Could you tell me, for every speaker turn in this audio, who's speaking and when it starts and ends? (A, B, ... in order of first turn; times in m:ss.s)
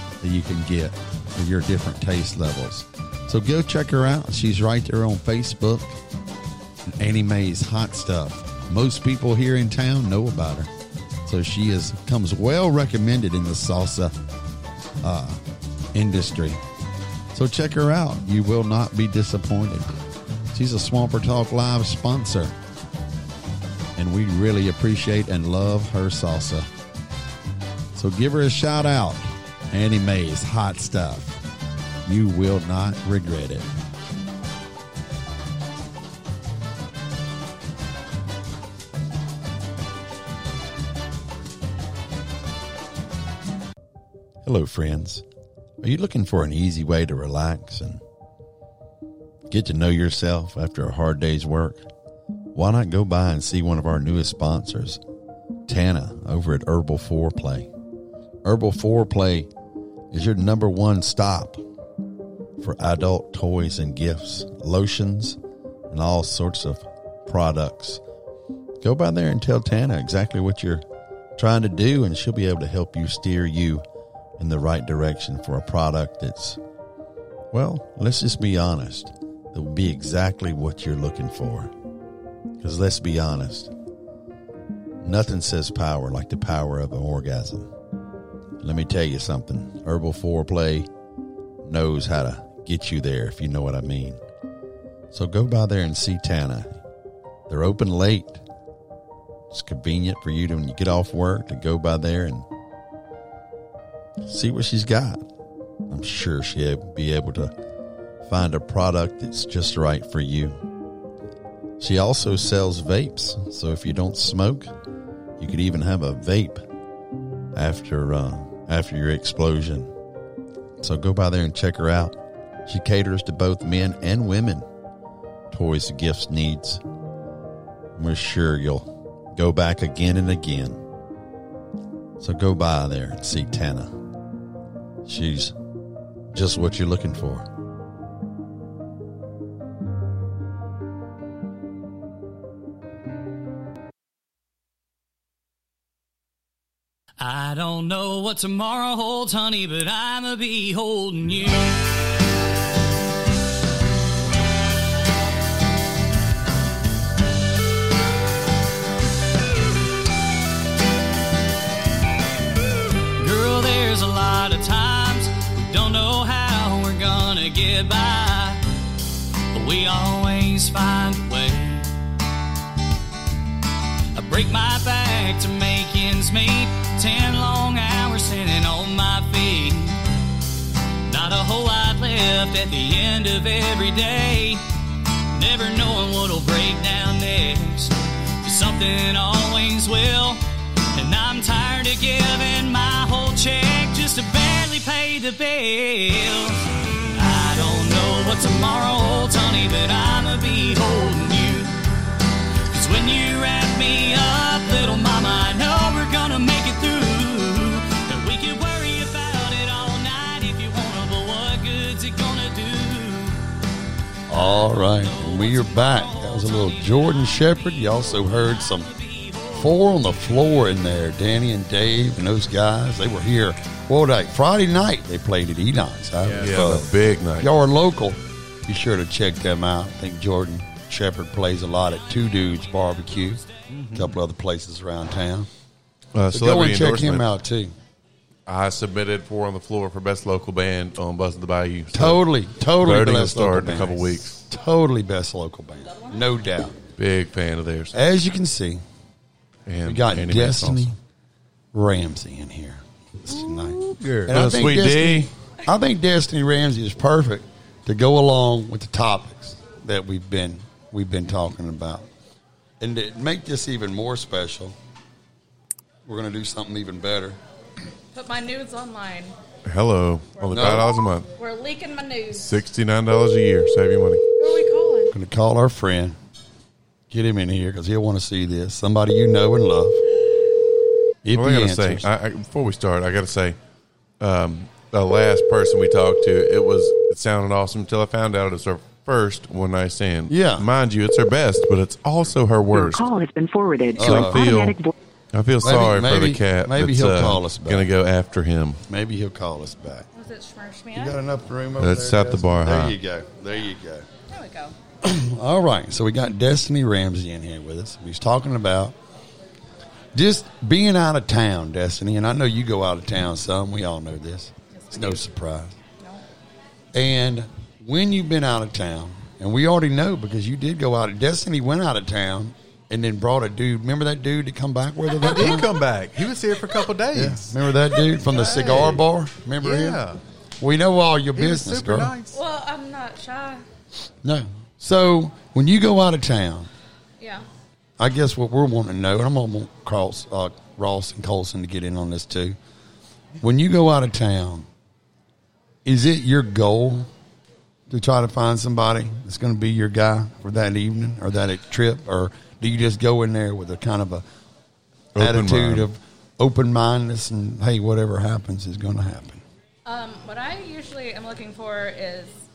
0:00.2-0:06.0 A
0:06.9-0:10.7 A
0:11.2-0:14.1 A
0:15.0-0:15.4 A
0:15.9-0:16.6 A
0:17.3-0:19.9 A
0:20.5-0:22.5 A
0:24.0-0:26.7 A
0:27.9-0:31.4 A
0:32.0-0:33.7 A
0:44.4-0:45.2 A
0:45.8-0:48.0 A
0:49.5-0:51.8 A
0:52.5-0:55.0 A
0:55.6-0:57.7 A
0:58.4-0:59.5 A
1:00.1-1:01.6 A
1:02.6-1:08.0 A
1:08.8-1:10.8 A
1:11.4-1:13.8 A
1:14.4-1:16.6 A
1:17.5-1:21.7 A
1:22.6-1:23.7 A
1:25.0-1:27.7 A
1:28.6-1:30.9 A
1:31.6-1:34.2 A
1:35.1-1:36.8 A
1:37.5-1:38.4 A
1:39.5-1:42.5 A
1:44.2-1:45.2 A
1:45.9-1:47.5 A
1:48.2-1:50.6 A
1:51.8-1:54.7 A
1:55.4-1:56.6 A
1:57.5-1:59.9 A
2:00.8-2:04.6 A
2:05.5-2:06.8 A
2:08.0-2:10.8 A
2:12.2-2:14.0 A
2:15.0-2:15.5 A
2:16.3-2:17.5 A
2:27.2-2:31.8 B
2:43.2-2:48.6 B
2:49.5-2:51.9 B
2:54.1-3:00.0 B
3:01.1-3:04.6 B
3:05.3-3:10.4 B
3:10.9-3:16.6 B
3:17.1-3:21.8 B
3:22.7-3:33.4 B
3:34.3-3:38.9 A
3:34.4-3:39.8 B
3:39.5-3:46.9 A
3:46.2-3:46.8 C
3:46.4-3:47.5 D
3:47.4-3:55.5 A
3:53.7-3:54.1 C
3:56.1-3:57.2 D
3:56.3-3:57.7 A
3:58.5-4:02.2 D
4:01.9-4:06.7 A
4:02.8-4:04.4 D
4:07.0-4:07.9 D
4:07.9-4:08.8 A
4:09.7-4:10.9 D
4:09.8-4:11.0 A
4:11.7-4:22.1 A
4:13.3-4:14.4 C
4:14.3-4:15.3 D
4:22.8-4:24.8 A
4:26.0-4:27.4 A
4:28.1-4:29.3 E
4:29.6-4:31.3 D
4:30.4-4:32.5 E
4:30.5-4:30.9 A
4:32.3-4:34.3 D
4:34.4-4:35.1 E
4:35.1-4:36.2 A
4:37.1-4:40.0 A
4:41.2-4:42.0 A
4:41.3-4:43.6 D
4:44.2-4:53.0 D
4:50.3-4:50.6 A
4:52.8-4:54.9 F
4:54.0-4:54.4 A
4:54.0-4:54.8 D
4:55.3-4:58.8 D
4:55.6-4:57.9 A
4:58.9-5:00.1 A
5:00.1-5:01.2 E
5:00.9-5:04.0 A
5:01.8-5:02.9 D
5:04.3-5:04.7 E
5:05.0-5:09.0 A
5:10.1-5:15.7 A
5:14.7-5:15.2 E
5:16.9-5:25.7 A
5:25.2-5:27.5 C
5:27.1-5:30.0 A
5:28.2-5:29.0 C
5:29.6-5:30.2 C
5:30.6-5:32.1 A
5:31.3-5:32.4 C
5:32.3-5:33.6 E
5:34.2-5:36.7 A
5:38.0-5:42.6 A
5:43.4-5:44.7 A
5:45.8-5:47.1 A
5:47.9-5:54.2 A
5:55.1-5:55.9 D
5:55.2-5:59.4 A
5:59.8-6:02.4 E